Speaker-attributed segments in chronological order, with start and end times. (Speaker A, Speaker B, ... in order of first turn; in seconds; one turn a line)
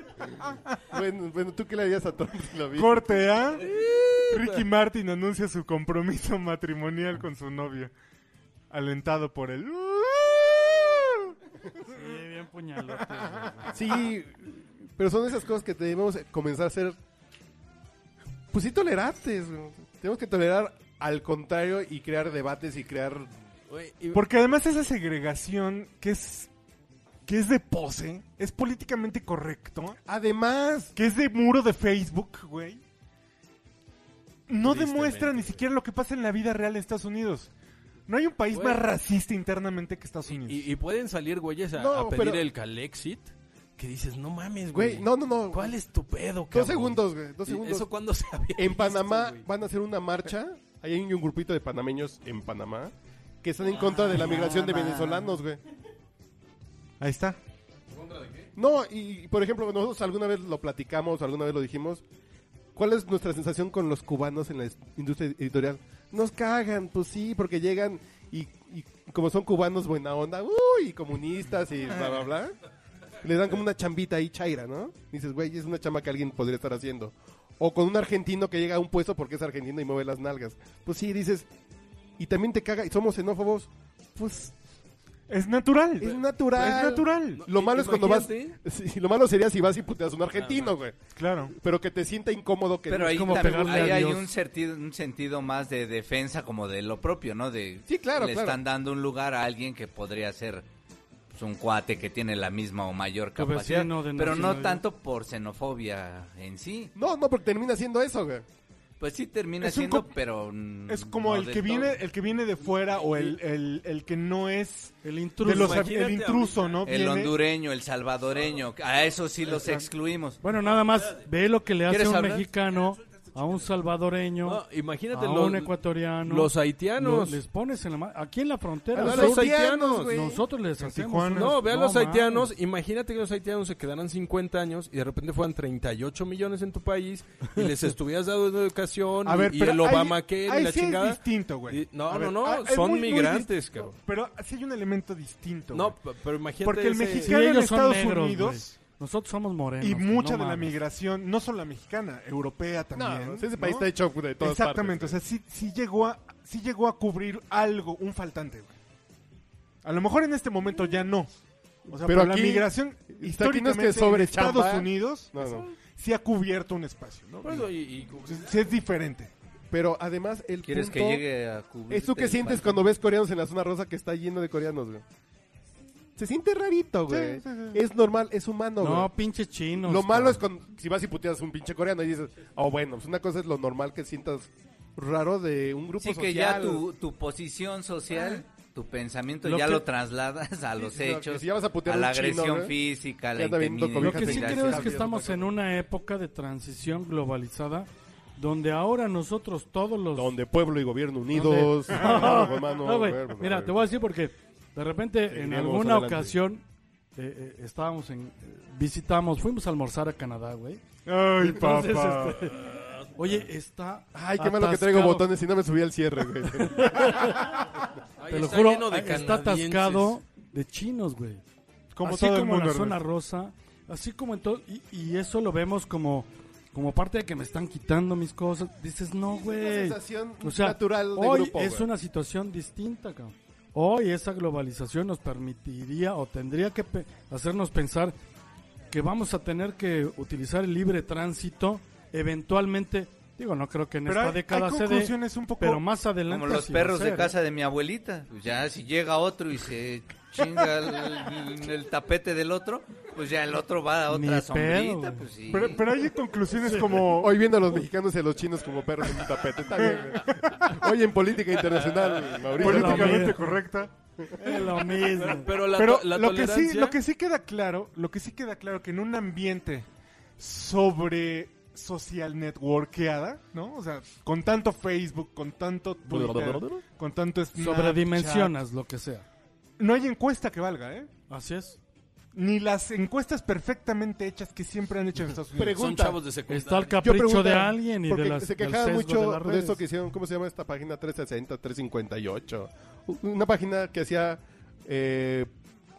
Speaker A: 0.4-0.7
Speaker B: 0.9-3.2
Speaker A: 2.7-3.7
Speaker C: 3.5-4.7
Speaker A: 4.3-7.9
Speaker A: 8.7-11.3
Speaker D: 11.9-13.8
Speaker A: 13.3-13.7
Speaker B: 13.7-17.0
Speaker B: 18.5-23.3
Speaker C: 23.7-24.2
Speaker A: 24.1-26.5
Speaker A: 27.2-30.0
Speaker B: 30.0-30.9
Speaker A: 30.9-32.8
Speaker A: 34.5-37.5
Speaker C: 34.6-35.6
Speaker A: 38.1-40.7
Speaker C: 38.5-38.9
Speaker C: 40.3-49.4
Speaker B: 41.8-42.4
Speaker B: 44.7-45.8
Speaker B: 46.5-47.9
Speaker B: 48.5-55.6
Speaker C: 54.2-54.7
Speaker A: 57.0-57.4
Speaker C: 57.9-58.5
Speaker B: 58.5-62.0
Speaker B: 62.7-72.6
Speaker B: 73.2-81.5
Speaker B: 82.2-84.4
Speaker A: 84.2-84.5
Speaker A: 85.3-87.5
Speaker B: 86.0-94.1
Speaker C: 86.5-88.6
Speaker C: 90.4-90.7
Speaker A: 91.1-91.5
Speaker E: 92.9-100.6
Speaker D: 93.1-94.2
Speaker B: 97.9-98.6
Speaker E: 101.3-106.9
Speaker D: 103.4-104.8
Speaker B: 106.9-108.4
Speaker E: 109.0-112.0
Speaker A: 109.6-110.1
Speaker A: 110.9-117.3
Speaker C: 112.8-113.4
Speaker D: 115.0-115.9
Speaker C: 115.4-116.9
Speaker E: 116.8-120.4
Speaker A: 119.5-119.9
Speaker D: 120.4-129.5
Speaker E: 121.9-122.5
Speaker C: 124.4-127.4
Speaker B: 128.9-130.4
Speaker C: 128.9-130.2
Speaker D: 130.1-132.5
Speaker A: 130.8-131.6
Speaker C: 131.3-144.0
Speaker A: 139.2-146.0
Speaker C: 145.7-147.5
Speaker A: 146.6-148.8
Speaker D: 147.1-150.8
Speaker A: 149.8-153.9
Speaker B: 152.9-155.2
Speaker A: 154.4-158.7
Speaker A: 159.8-161.3
Speaker B: 161.9-165.7
Speaker A: 161.9-167.7
Speaker C: 167.3-168.7
Speaker A: 168.3-169.3
Speaker B: 169.7-171.2
Speaker E: 170.7-172.8
Speaker B: 171.9-175.0
Speaker B: 176.2-179.1
Speaker A: 177.1-177.8
Speaker D: 178.8-180.4
Speaker B: 179.8-186.8
Speaker E: 186.0-195.0
Speaker D: 189.4-189.8
Speaker B: 190.8-192.8
Speaker B: 193.3-195.5
Speaker D: 194.0-200.3
Speaker B: 200.1-203.8
Speaker D: 201.3-206.6
Speaker A: 202.1-202.4
Speaker B: 205.3-206.4
Speaker D: 207.2-210.8
Speaker A: 211.1-212.6
Speaker D: 211.4-215.3
Speaker B: 214.1-217.3
Speaker D: 216.7-217.5
Speaker C: 218.2-220.2
Speaker D: 218.3-221.4
Speaker A: 221.9-223.0
Speaker D: 222.0-238.1
Speaker B: 229.3-231.9
Speaker D: 238.9-247.3
Speaker A: 244.1-245.8
Speaker E: 246.3-255.8
Speaker D: 254.1-255.3
Speaker A: 255.5-257.4
Speaker D: 256.6-257.0
Speaker B: 257.1-263.4
Speaker A: 259.8-260.9
Speaker C: 261.7-263.1
Speaker A: 262.5-263.9
Speaker D: 262.6-263.5
Speaker D: 264.4-265.5
Speaker C: 264.9-267.0
Speaker A: 265.5-269.9
Speaker A: 270.4-278.5
Speaker C: 276.1-276.8
Speaker D: 277.6-279.3
Speaker A: 279.8-281.1
Speaker D: 281.3-281.8
Speaker A: 282.3-285.8
Speaker B: 285.6-286.2
Speaker C: 285.7-287.0
Speaker D: 286.5-289.8
Speaker B: 287.0-295.5